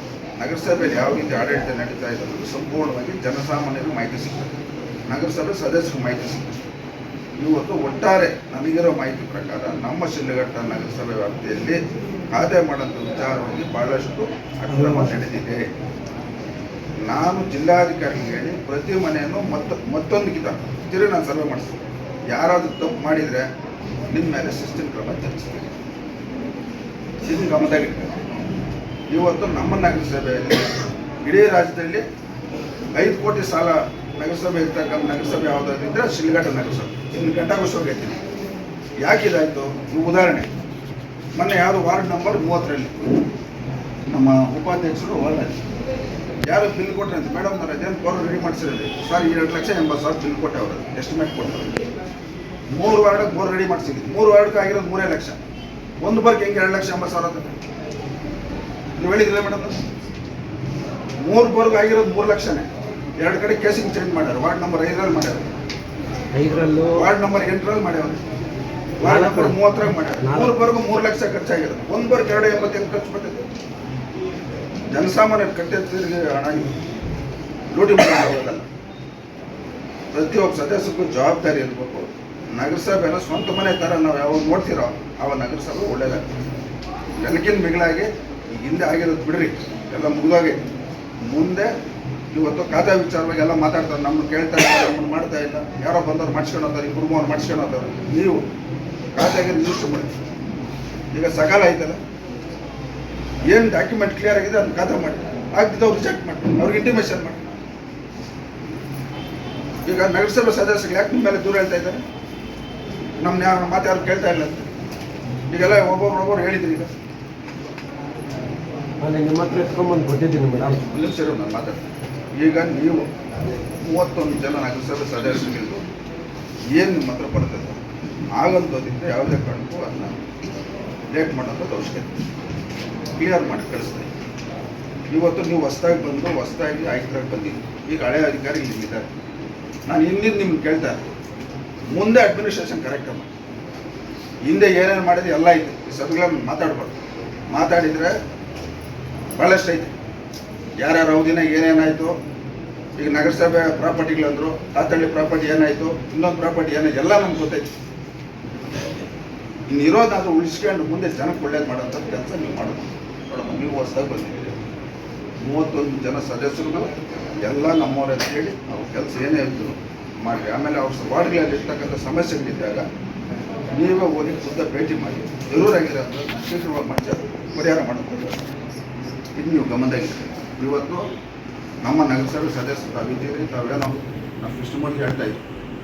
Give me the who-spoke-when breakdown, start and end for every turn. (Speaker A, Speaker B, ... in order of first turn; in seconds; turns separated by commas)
Speaker A: 0.4-6.7, Speaker A: 7.4-11.8, Speaker A: 12.3-15.7, Speaker B: 14.7-15.1, Speaker A: 17.0-21.8, Speaker A: 22.3-23.5, Speaker A: 24.1-25.8, Speaker A: 27.2-28.2, Speaker A: 29.1-30.7, Speaker A: 31.2-32.0, Speaker A: 33.0-38.2, Speaker A: 39.0-40.5, Speaker A: 41.4-43.1, Speaker A: 44.1-45.6, Speaker A: 46.5-51.8, Speaker A: 52.7-55.4, Speaker A: 56.0-57.6, Speaker A: 59.0-59.8, Speaker A: 61.2-62.7, Speaker A: 63.2-65.5, Speaker B: 66.3-67.1, Speaker A: 66.9-68.2, Speaker A: 69.0-73.5, Speaker B: 69.0-69.6, Speaker B: 70.2-70.6, Speaker A: 74.9-76.7, Speaker A: 77.7-78.7, Speaker A: 80.1-86.5, Speaker A: 87.2-90.6, Speaker A: 91.2-91.7, Speaker A: 92.3-98.5, Speaker A: 99.2-100.1, Speaker A: 101.1-102.0, Speaker A: 103.5-107.5, Speaker A: 109.9-112.0, Speaker A: 113.2-114.7, Speaker A: 115.5-116.9, Speaker B: 119.0-120.8, Speaker A: 120.7-123.1, Speaker A: 123.8-125.8, Speaker A: 126.7-127.8, Speaker A: 128.3-130.2, Speaker A: 131.1-132.2, Speaker A: 133.2-134.1, Speaker A: 135.1-139.1, Speaker A: 139.9-141.1, Speaker A: 141.9-143.3, Speaker A: 144.4-147.0, Speaker A: 147.5-148.2, Speaker A: 149.4-149.9, Speaker A: 150.8-152.2, Speaker A: 153.0-157.7, Speaker A: 159.7-164.6, Speaker A: 165.4-166.9, Speaker A: 167.4-172.9, Speaker A: 173.7-178.5, Speaker A: 179.4-181.1, Speaker A: 181.8-185.4